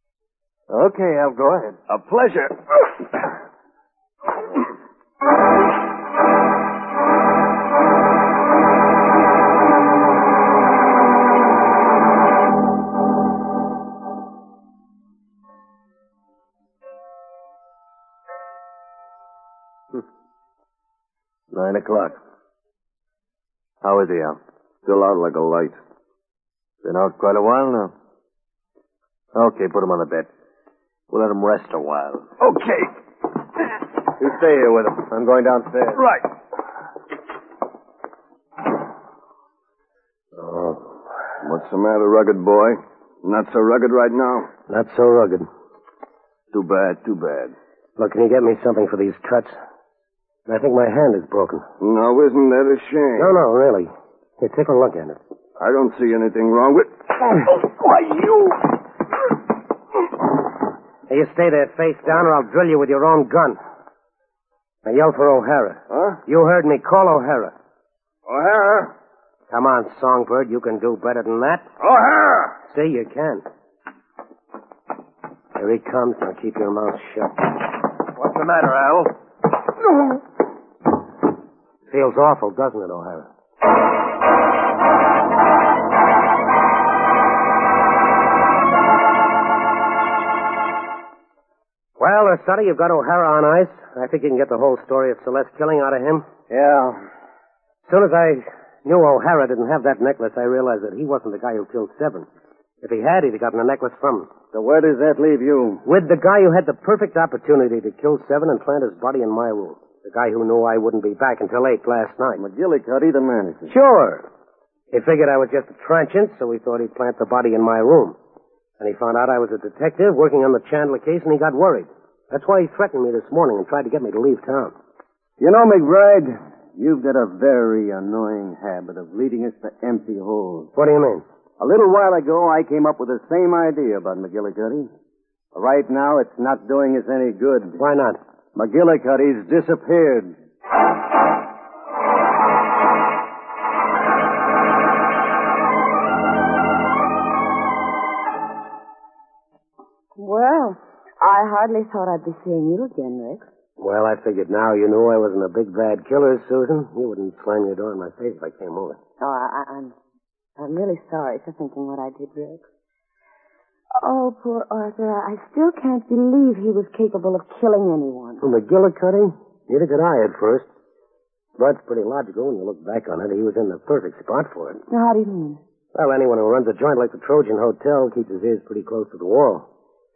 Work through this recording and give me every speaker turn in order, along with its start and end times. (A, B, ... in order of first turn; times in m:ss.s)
0:00.7-0:01.8 A
0:01.9-0:02.9 B
0:21.5-0:22.2 A
0:23.8-0:24.4 A
0:24.8-0:25.8 B
0:26.8-0:27.9 A
0:29.3-0:30.3 A
0:31.1-0:32.3 A
0:32.4-0:32.9 B
0:34.2-0:36.0 A
0:40.4-0:40.9 C
0:41.4-0:44.5 B
0:44.7-0:45.5 C
0:46.5-0:47.5 B
0:48.0-0:49.6 C
0:50.5-0:51.7 C
0:51.8-0:53.4 B
0:53.2-0:55.2 C
0:55.6-0:58.8 B
1:01.1-1:03.6 C
1:04.8-1:07.5 C
1:05.9-1:06.2 B
1:08.3-1:08.9 B
1:09.5-1:11.7 C
1:11.8-1:12.5 B
1:12.7-1:13.4 C
1:15.6-1:17.5 C
1:18.3-1:18.8 D
1:21.9-1:23.3 C
1:32.0-1:36.3 C
1:36.5-1:37.0 D
1:37.9-1:42.3 C
1:42.8-1:44.3 C
1:44.5-1:45.8 D
1:45.8-1:52.4 C
1:52.4-1:53.7 D
1:53.7-1:54.3 C
1:54.9-1:58.2 C
1:58.8-2:04.8 C
2:05.4-2:10.7 D
2:10.8-2:11.2 C
2:11.6-2:14.9 D
2:15.6-2:17.8 D
2:17.8-2:18.2 C
2:18.6-2:20.3 D
2:30.2-2:33.4 E
2:33.8-2:39.0 C
2:39.2-2:39.9 E
2:40.6-2:42.6 E
2:44.0-2:48.4 E
2:48.4-2:50.7 C
2:51.6-2:54.8 C
2:54.9-2:55.6 E
2:55.9-2:59.7 C